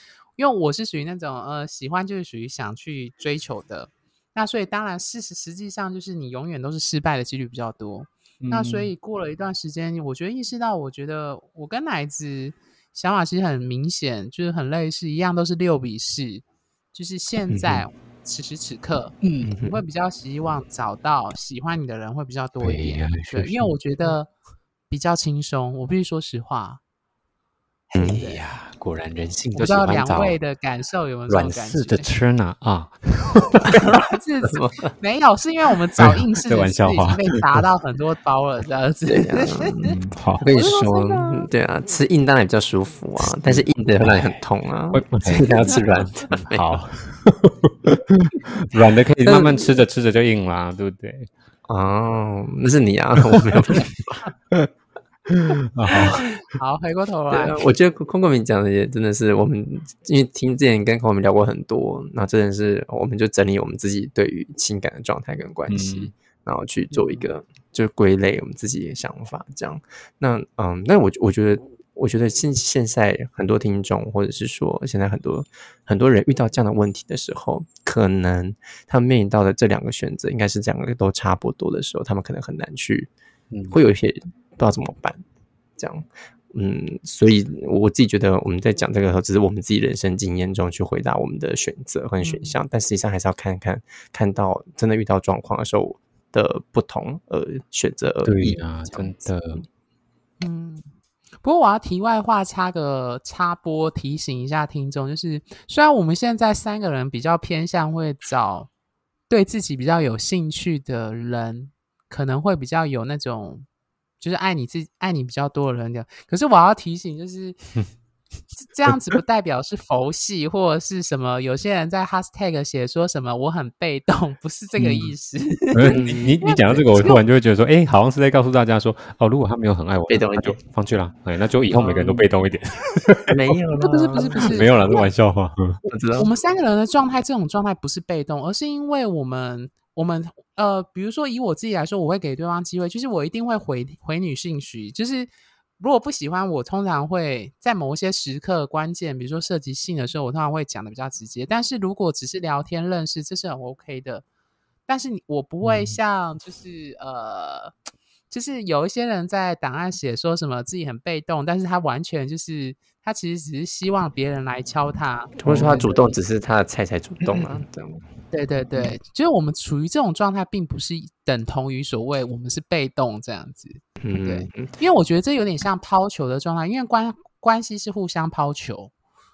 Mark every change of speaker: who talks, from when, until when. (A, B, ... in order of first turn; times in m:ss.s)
0:00.4-0:24.3 A
0:08.4-0:08.9 B
0:17.5-0:17.8 C
0:19.2-0:19.5 B
0:19.5-0:19.8 C
0:22.6-0:23.7 B
0:24.9-0:26.8 A
0:27.9-0:28.4 A
0:28.0-0:30.4 B
0:29.6-0:32.1 A
0:31.3-0:33.6 B
0:33.6-0:39.9 A
0:34.5-0:34.9 C
0:36.0-0:37.4 B
0:39.1-0:46.8 C
0:39.9-0:40.4 B
0:40.5-0:41.5 A
0:43.3-0:44.2 B
0:44.9-0:51.3 B
0:49.2-0:49.7 C
0:51.7-0:54.2 C
0:55.3-0:56.3 B
0:55.9-0:57.6 A
0:57.3-1:23.1 C
1:05.7-1:06.1 B
1:06.9-1:07.2 A
1:23.5-1:23.8 B
1:23.7-1:25.2 C
1:25.8-1:39.3 C
1:32.2-1:32.6 A
1:38.2-1:39.6 B
1:40.4-1:40.9 A
1:41.4-1:48.7 A
1:49.3-1:53.6 A
1:54.2-1:57.6 A
1:58.6-2:07.2 A
2:05.7-2:13.5 B
2:05.9-2:06.3 C
2:10.1-2:10.6 C
2:11.8-2:12.2 C
2:13.3-2:14.6 C
2:13.8-2:15.0 A
2:14.3-2:15.8 B
2:15.9-2:16.3 C
2:16.2-2:34.2 A
2:34.9-2:37.7 A
2:35.6-2:35.9 B
2:38.3-2:46.1 A
2:45.4-2:48.0 C
2:45.5-2:45.8 B
2:47.3-2:47.6 B
2:48.3-2:58.9 A
2:54.0-2:54.7 C